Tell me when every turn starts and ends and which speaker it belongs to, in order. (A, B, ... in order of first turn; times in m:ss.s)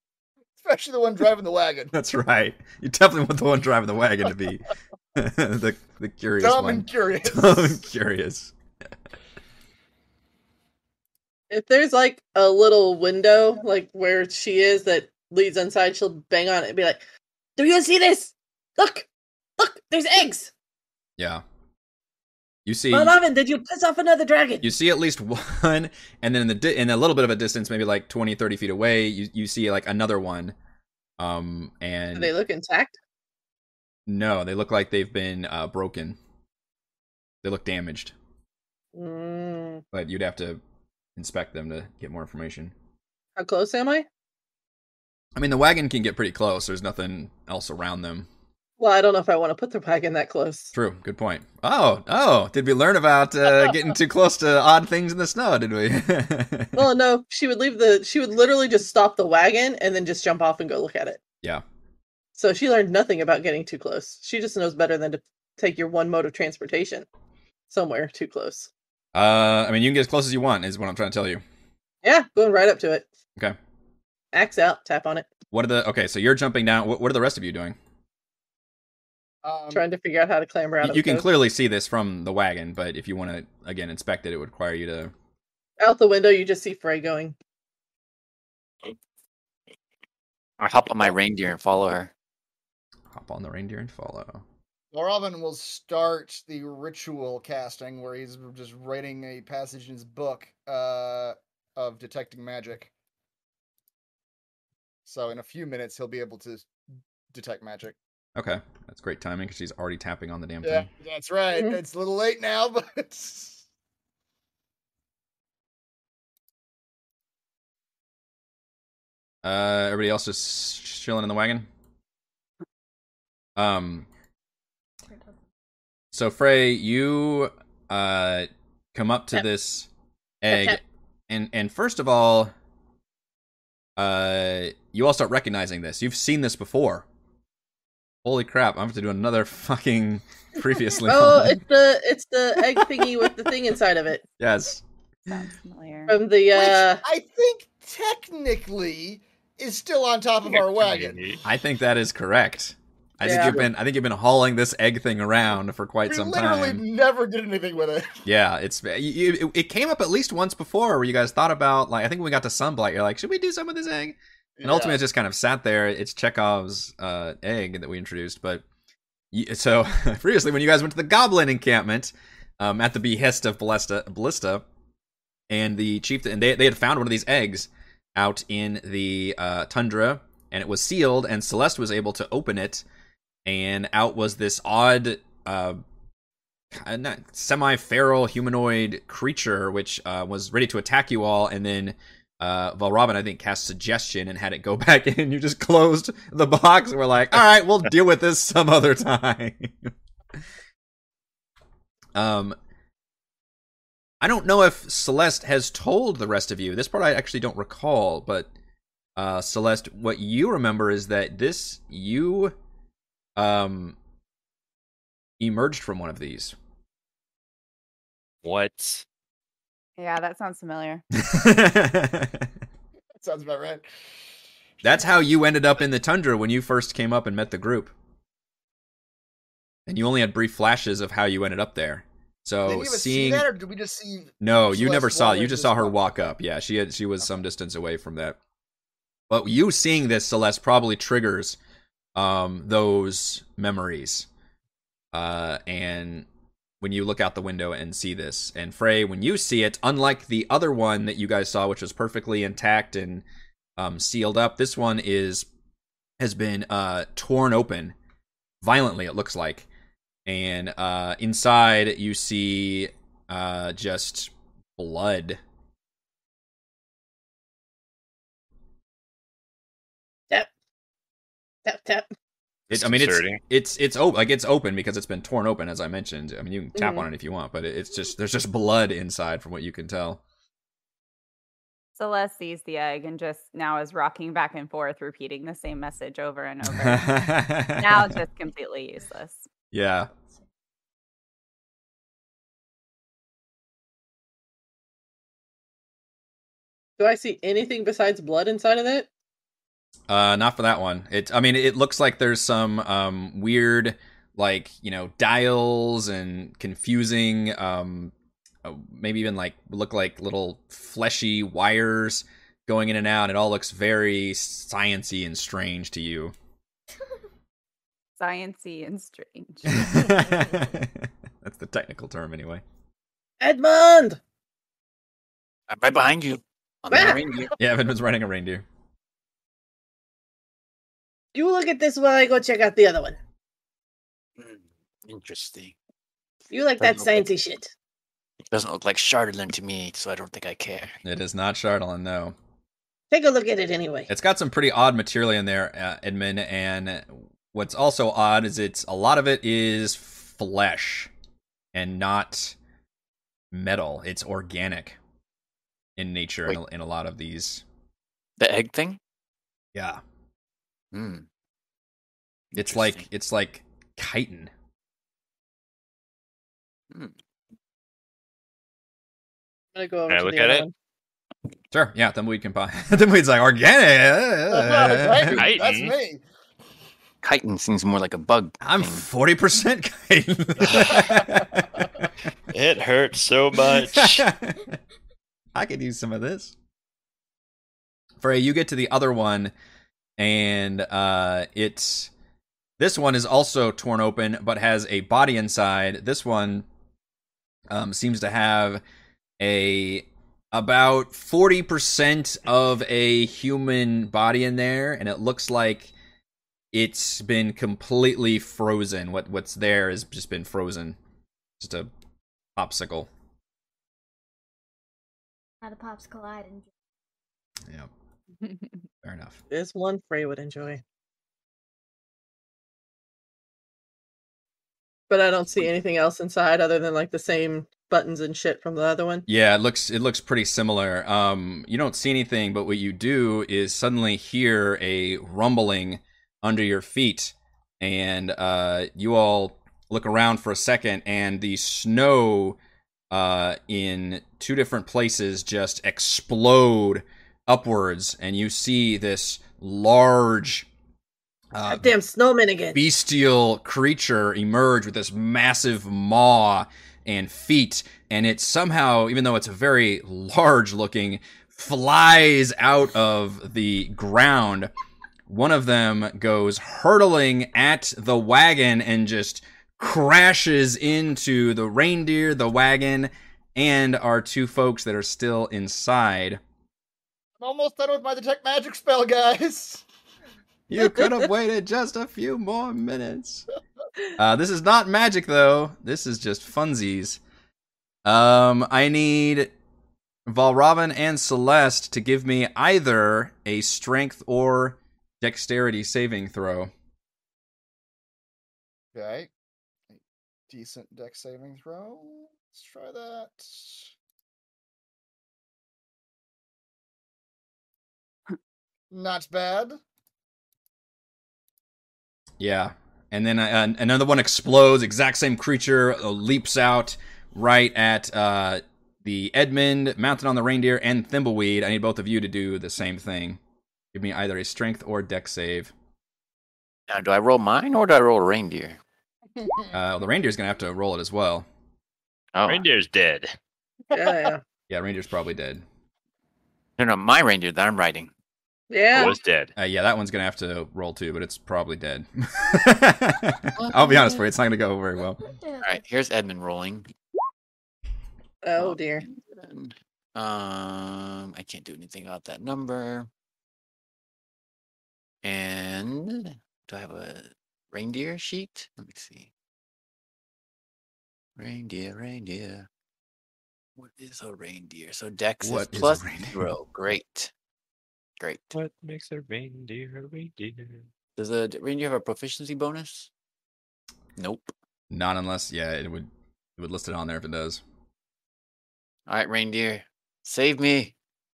0:00.6-0:01.9 A
0:01.9-0:08.5 B
0:06.4-0:07.8 A
0:11.5-0:17.0 C
0:17.6-0:20.5 C
0:21.2-0:21.4 B
0:22.7-0:23.2 B
0:22.9-0:24.7 C
0:24.6-0:30.6 B
0:31.2-0:32.3 B
0:32.2-0:33.0 C
0:34.1-0:36.2 B
0:37.4-0:38.1 B
0:38.9-0:39.8 C
0:39.9-0:40.6 B
0:41.2-0:42.7 B
0:43.4-0:44.1 C
0:45.4-0:48.3 B
0:48.8-0:50.7 C
0:50.7-0:56.8 B
0:56.8-1:01.2 C
1:02.4-1:07.1 C
1:07.7-1:08.7 C
1:09.2-1:11.4 B
1:12.0-1:13.1 C
1:14.3-1:15.3 C
1:15.5-1:17.8 B
1:19.4-1:19.9 A
1:19.7-1:21.3 C
1:20.8-1:25.1 B
1:25.8-1:27.4 C
1:30.6-1:32.1 D
1:33.1-1:34.4 B
1:34.9-1:42.9 A
1:45.0-1:46.7 A
1:47.3-1:48.0 A
1:48.4-1:50.9 B
1:50.6-1:53.6 A
1:59.4-2:01.7 B
2:03.6-2:04.1 B
2:05.1-2:05.4 E
2:06.1-2:09.9 B
2:10.4-2:12.5 B
2:10.5-2:10.8 C
2:14.0-2:17.0 B
2:18.2-2:21.6 B
2:21.1-2:24.2 C
2:22.8-2:23.0 B
2:24.4-2:24.8 B
2:25.3-2:26.2 F
2:26.1-2:27.0 C
2:26.5-2:31.2 A
2:30.5-2:31.4 G
2:31.4-2:36.8 B
2:33.2-2:33.6 C
2:33.3-2:33.7 A
2:36.1-2:38.2 A
2:38.2-2:48.6 B
2:44.6-2:45.0 A
2:49.3-2:54.6 B
2:55.5-3:02.8 B
3:03.5-3:05.8 B
3:06.7-3:19.9 B
3:22.2-3:22.6 B
3:24.2-3:28.5 B
3:29.2-3:32.6 B
3:33.4-3:34.0 B
3:35.4-3:36.6 B
3:38.4-3:39.0 G
3:40.0-3:41.0 F
3:41.2-3:42.5 B
3:43.2-3:43.8 A
3:44.8-3:47.9 B
3:49.9-3:53.5 B
3:52.7-3:56.3 A
3:54.4-3:58.4 B
3:59.3-4:01.6 B
4:02.2-4:04.3 B
4:05.1-4:06.3 B
4:06.8-4:13.2 B
4:13.8-4:15.5 B
4:16.2-4:18.0 B
4:18.6-4:19.7 B
4:20.3-4:25.4 B
4:31.6-4:32.1 C
4:32.7-4:33.4 G
4:32.7-4:40.2 B
4:36.8-4:37.1 C
4:42.0-4:49.4 F
4:46.7-4:48.2 B
4:49.7-4:50.1 B
4:57.0-4:59.1 C
5:00.1-5:08.1 B
5:08.6-5:16.3 B
5:18.2-5:19.9 F
5:19.7-5:22.6 B
5:23.4-5:24.2 C
5:25.7-5:27.6 D
5:26.9-5:27.2 C
5:27.6-5:28.6 B
5:31.3-5:33.2 C
5:34.4-5:35.8 D
5:36.5-5:37.7 C
5:36.8-5:37.3 D
5:38.5-5:41.0 D
5:41.0-5:42.4 B
5:43.1-5:44.1 C
5:44.1-5:51.1 B
5:51.7-5:52.6 B
5:53.5-5:55.0 B
5:56.0-5:57.6 B
5:58.4-5:59.0 D
5:59.8-6:00.0 B
6:00.9-6:01.3 D
6:02.5-6:03.1 D
6:02.6-6:04.5 B
6:09.8-6:10.7 C
6:10.1-6:10.7 G
6:11.7-6:15.4 B
6:14.5-6:16.2 A
6:15.4-6:15.9 G
6:17.2-6:19.1 D
6:18.6-6:22.0 B
6:20.6-6:21.0 G
6:22.5-6:24.3 G
6:23.7-6:24.7 B
6:25.6-6:26.5 B
6:28.2-6:29.5 B
6:30.2-6:32.1 B
6:32.8-6:36.7 B
6:37.7-6:38.8 B
6:39.4-6:45.9 B
6:46.7-6:51.0 B
6:51.6-6:51.9 B
6:52.6-6:53.1 B
6:55.6-6:56.7 E
6:58.4-6:58.8 F
6:59.0-6:59.4 B
6:59.5-7:00.8 C
7:05.1-7:09.3 C
7:09.3-7:22.6 B
7:23.1-7:30.7 B
7:31.5-7:31.9 B
7:31.7-7:32.8 C
7:32.7-7:44.7 B
7:45.3-7:56.4 B
7:57.4-7:59.8 A
8:00.7-8:03.5 B
8:00.8-8:01.1 C
8:04.2-8:07.2 B
8:08.1-8:09.5 B
8:10.3-8:16.7 B
8:18.9-8:19.3 A
8:19.9-8:23.9 A
8:28.9-8:29.8 A
8:32.4-8:43.4 B
8:43.9-8:45.7 B
8:46.9-8:48.8 D
8:49.4-8:49.7 A
8:49.7-8:51.5 B
8:52.3-8:52.7 D
8:52.5-8:53.3 G
8:53.9-8:54.4 C
8:54.7-8:55.6 B
8:56.8-8:58.1 D
8:58.7-8:59.2 C
8:58.9-8:59.5 G
8:59.6-9:05.2 B
9:03.6-9:04.2 D
9:05.3-9:05.8 E
9:05.6-9:06.9 D
9:08.4-9:09.0 C
9:08.6-9:13.1 D
9:15.2-9:19.3 D
9:21.4-9:22.7 D
9:23.8-9:27.3 D
9:25.4-9:26.5 B
9:28.2-9:28.6 D
9:28.5-9:30.9 G
9:31.2-9:33.1 D
9:34.2-9:34.5 D
9:34.9-9:37.6 B
9:39.1-9:40.9 D